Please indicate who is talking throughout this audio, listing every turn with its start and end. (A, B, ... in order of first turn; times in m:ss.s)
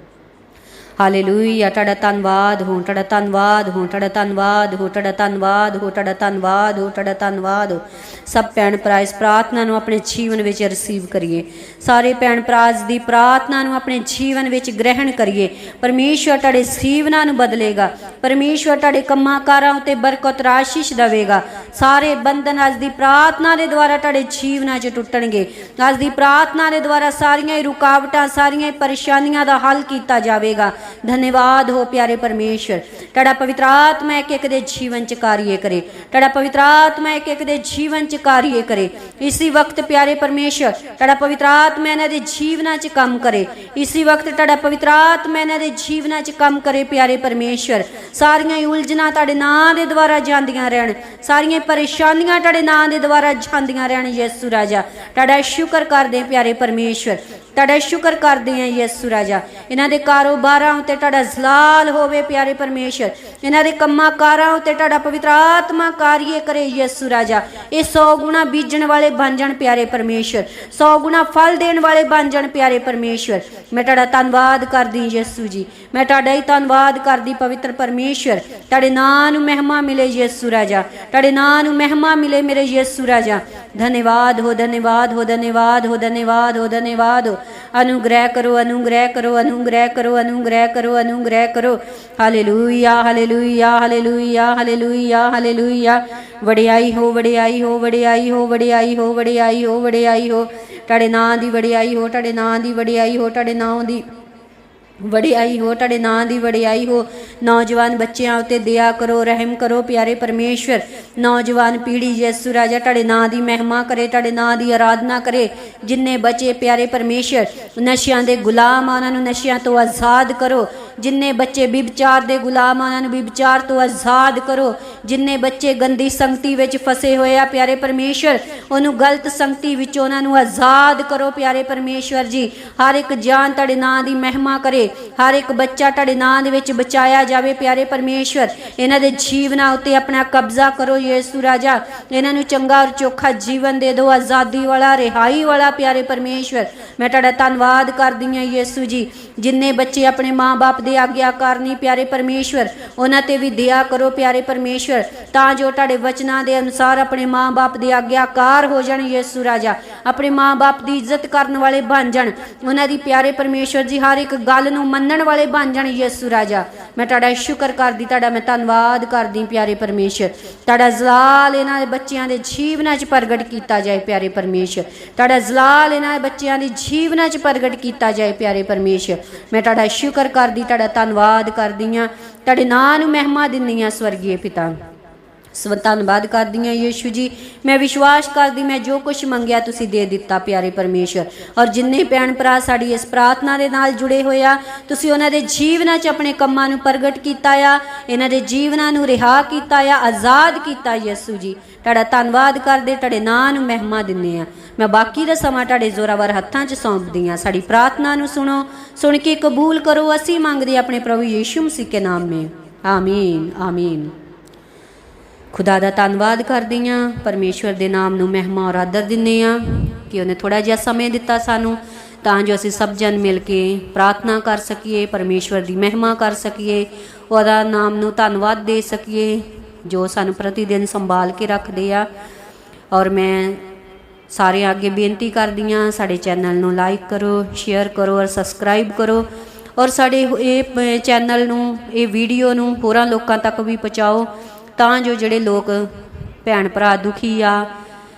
0:01.0-1:44.0 A
1:45.0-3:04.8 A
3:05.5-3:34.1 A
3:35.5-3:52.1 A
3:52.9-3:53.6 A
3:54.3-4:07.7 A